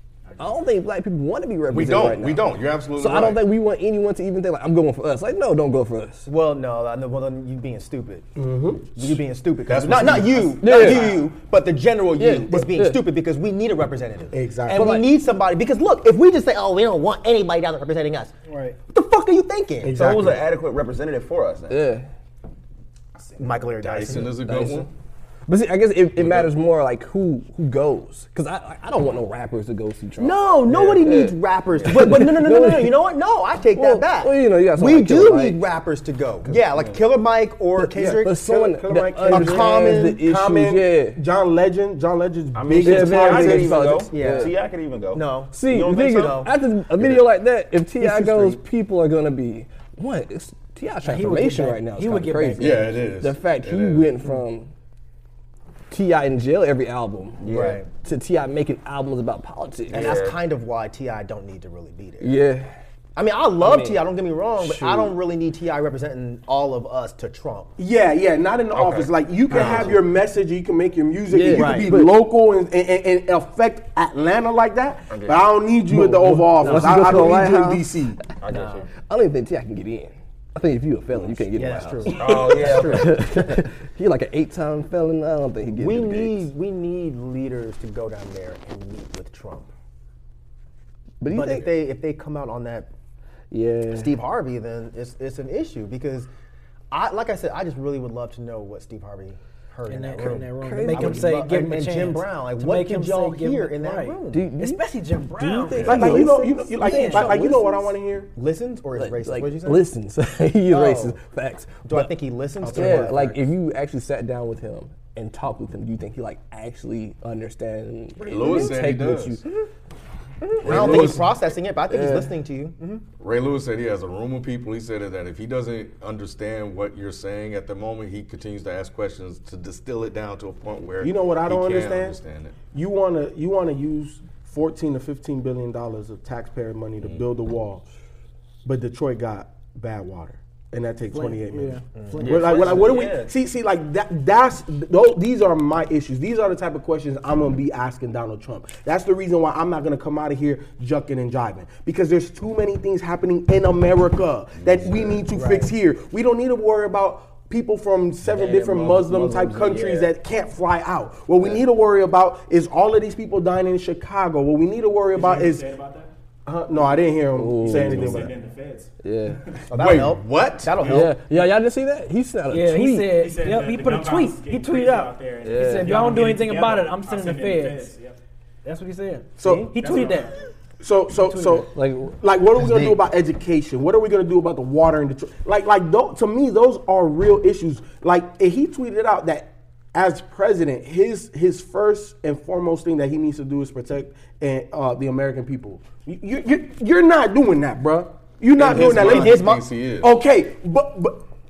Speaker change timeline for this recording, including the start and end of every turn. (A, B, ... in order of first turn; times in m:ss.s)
0:00.4-0:06.3 A
0:01.7-0:03.4 B
0:06.3-0:08.3 C
0:08.4-0:09.0 D
0:08.9-0:18.3 C
0:09.6-0:11.2 B
0:10.6-0:11.2 A
0:12.2-0:13.1 A
0:14.3-0:14.9 D
0:14.7-0:15.2 A
0:18.5-0:18.8 E
0:18.9-0:20.2 C
0:19.8-0:21.9 F
0:19.8-0:20.4 D
0:21.7-0:22.1 A
0:23.2-0:23.6 G
0:23.4-0:24.4 C
0:23.8-0:24.9 B
0:24.1-0:24.9 A
0:25.5-0:33.0 A
0:26.2-0:26.5 B
0:30.2-0:38.4 C
0:31.7-0:32.1 F
0:33.7-0:35.6 A
0:37.8-0:41.2 A
0:38.2-0:43.8 D
0:39.3-0:40.2 C
0:42.5-0:46.5 F
0:42.8-0:44.5 A
0:44.1-0:46.5 C
0:45.5-0:54.7 A
0:48.0-0:48.6 C
0:51.0-0:53.1 E
0:52.6-0:54.1 B
0:55.9-1:00.2 A
0:57.4-0:57.9 F
0:57.5-0:57.8 C
0:59.9-1:00.4 F
0:59.9-1:02.3 C
1:02.2-1:02.8 A
1:03.2-1:07.7 C
1:03.6-1:05.2 A
1:07.8-1:18.2 D
1:08.7-1:10.1 F
1:09.5-1:09.9 C
1:11.3-1:12.2 A
1:11.5-1:11.9 C
1:15.1-1:15.6 F
1:15.9-1:17.9 A
1:18.4-1:18.9 F
1:19.0-1:26.5 A
1:21.5-1:23.6 C
1:22.1-1:23.2 F
1:25.7-1:29.7 C
1:31.2-1:31.8 A
1:31.3-1:32.9 C
1:33.5-1:34.2 A
1:33.9-1:36.3 C
1:36.9-1:44.5 C
1:39.9-1:47.3 E
1:40.6-1:41.4 A
1:44.3-1:47.8 A
1:45.8-1:46.1 B
1:45.8-1:48.3 D
1:47.1-1:47.7 C
1:48.3-1:49.9 C
1:49.0-1:52.2 A
1:50.7-1:51.2 C
1:51.8-1:53.4 C
1:52.6-1:53.4 D
1:52.7-1:59.4 A
1:58.2-1:59.4 B
2:00.5-2:03.0 C
2:00.6-2:01.2 A
2:00.6-2:01.3 B
2:01.9-2:02.4 A
2:03.2-2:12.6 B
2:11.0-2:12.2 D
2:12.7-2:17.9 D
2:18.6-2:45.7 D
2:21.1-2:22.3 E
2:22.1-2:23.3 F
2:34.6-2:35.0 B
2:38.2-2:40.1 F
2:45.1-2:46.1 G
2:46.5-2:48.3 D
2:47.4-2:48.4 A
2:47.6-2:48.9 G
2:49.0-2:49.5 A
2:49.7-2:51.1 C
2:49.7-2:51.1 B
2:50.8-2:53.2 A
2:52.5-2:57.9 E
2:53.1-2:58.2 G
2:55.4-2:56.1 A
2:58.6-3:00.4 E
2:59.4-3:00.1 D
2:59.8-3:00.4 G
3:00.8-3:21.2 D
3:01.3-3:01.6 E
3:01.7-3:02.2 A
3:02.6-3:03.0 C
3:18.6-3:20.1 B
3:18.7-3:19.7 C